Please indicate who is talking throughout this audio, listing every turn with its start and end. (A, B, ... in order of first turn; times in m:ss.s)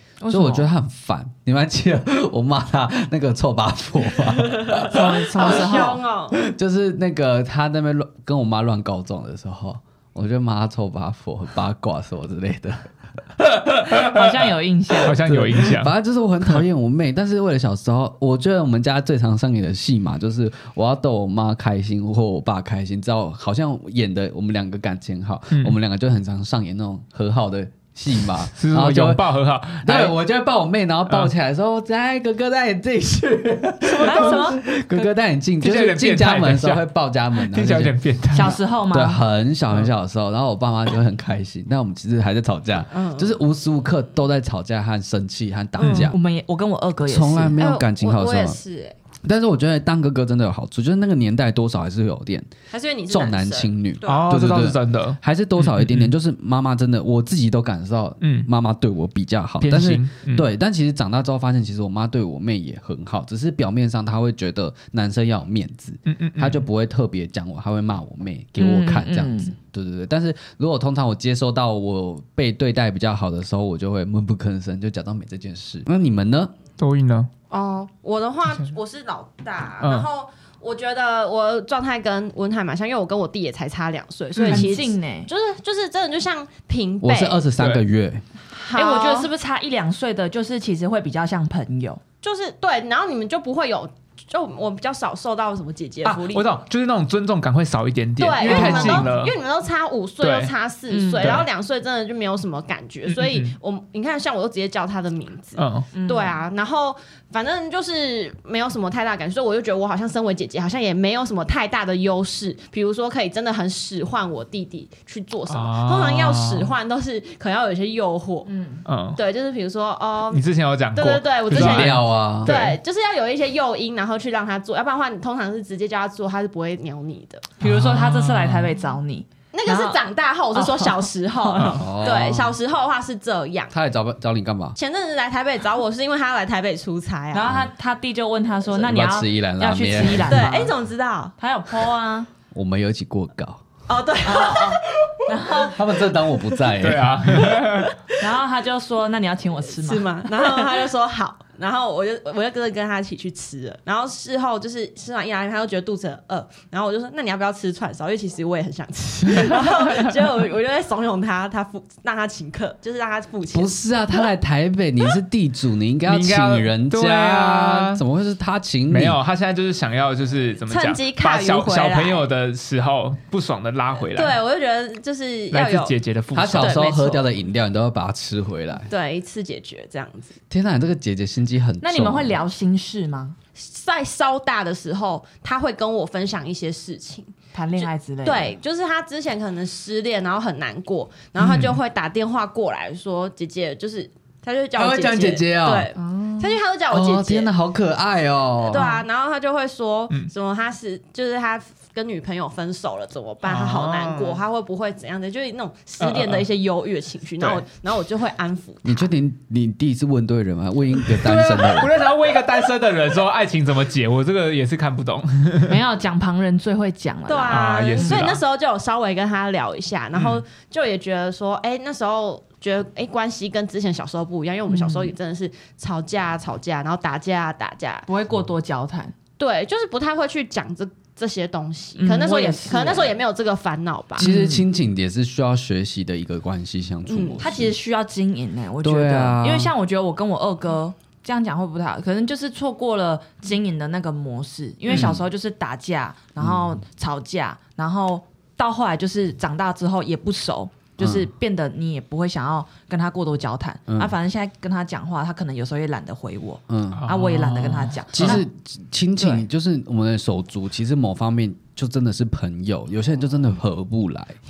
0:00.2-0:00.7 A
0:00.3-0:05.1 B
0:04.6-0:06.4 C
0:04.9-0:06.0 A
0:06.3-0:14.2 B
0:13.9-0:15.2 A
0:15.0-0:15.9 D
0:15.0-0:29.2 B
0:28.6-0:30.2 D
0:29.8-0:46.2 B
0:33.9-0:34.6 A
0:35.6-0:36.8 D
0:37.4-0:38.6 D
0:38.3-0:39.2 A
0:42.9-0:43.4 C
0:45.8-0:46.1 D
0:46.1-0:47.6 A
0:47.0-0:48.6 B
0:47.6-0:49.0 C
0:49.2-0:52.5 B
0:52.7-0:54.3 C
0:53.1-1:16.5 B
0:54.0-0:56.1 D
0:58.2-0:58.5 D
0:59.6-1:00.5 D
1:06.1-1:06.6 D
1:08.6-1:09.5 A
1:16.8-1:17.3 D
1:17.5-1:27.4 C
1:19.8-1:20.1 D
1:24.4-1:24.7 D
1:24.5-1:25.3 A
1:27.0-1:28.2 B
1:27.6-1:27.8 D
1:28.5-1:29.3 C
1:28.7-1:32.0 A
1:32.2-1:36.6 C
1:36.0-1:39.4 D
1:38.2-1:58.5 C
1:38.4-1:39.1 A
1:40.2-1:40.5 D
1:40.9-1:41.4 A
1:41.2-1:41.5 D
1:43.1-1:43.6 D
1:45.6-1:45.9 D
1:45.9-1:46.4 A
1:55.5-1:56.7 D
1:58.5-1:58.8 A
1:58.9-1:59.2 D
1:59.2-2:00.4 C
2:00.3-2:02.8 D
2:01.0-2:07.5 C
2:01.5-2:02.6 B
2:07.6-2:10.0 A
2:07.6-2:08.7 D
2:09.5-2:13.7 C
2:10.5-2:11.8 A
2:11.6-2:11.9 D
2:11.7-2:12.6 B
2:13.7-2:14.8 B
2:14.8-2:17.6 C
2:17.3-2:20.7 A
2:18.8-2:20.5 B
2:20.3-2:21.4 C
2:21.4-2:22.3 A
2:22.5-2:23.6 B
2:23.9-2:26.6 C
2:24.2-2:25.8 A
2:25.7-2:27.6 B
2:26.8-2:28.0 D
2:27.5-2:27.9 C
2:28.2-2:30.7 A
2:29.7-2:43.7 C
2:43.5-2:49.2 B
2:46.1-2:48.0 D
2:48.9-2:54.4 D
2:50.7-2:52.3 C
2:54.0-2:56.0 C
2:55.5-2:56.8 D
2:56.3-2:58.9 B
2:56.6-2:57.2 C
2:56.6-2:57.1 A
2:58.9-3:00.4 C
3:00.5-3:02.4 B
3:01.8-3:03.4 A
3:03.6-3:17.5 C
3:07.5-3:08.6 A
3:11.4-3:11.8 D
3:14.8-3:15.9 B
3:16.0-3:16.6 A
3:16.9-3:19.0 B
3:18.6-3:29.0 C
3:18.8-3:19.0 A
3:23.4-3:24.4 D
3:26.0-3:26.5 D
3:28.8-3:32.0 B
3:31.1-3:35.8 D
3:35.7-3:38.3 A
3:37.3-3:48.1 C
3:37.5-3:38.4 D
3:40.1-3:40.4 D
3:44.7-3:45.1 A
3:48.1-3:49.2 A
3:49.4-3:54.3 C
3:52.0-3:53.2 A
3:54.2-3:54.7 A
3:54.2-3:57.8 B
3:57.1-3:57.4 C
3:57.4-4:18.4 A
3:58.8-3:59.7 B
4:04.9-4:05.2 B
4:06.4-4:06.7 B
4:11.0-4:11.3 B
4:16.7-4:17.0 B
4:16.9-4:18.4 D
4:18.1-4:24.4 B
4:19.2-4:19.4 A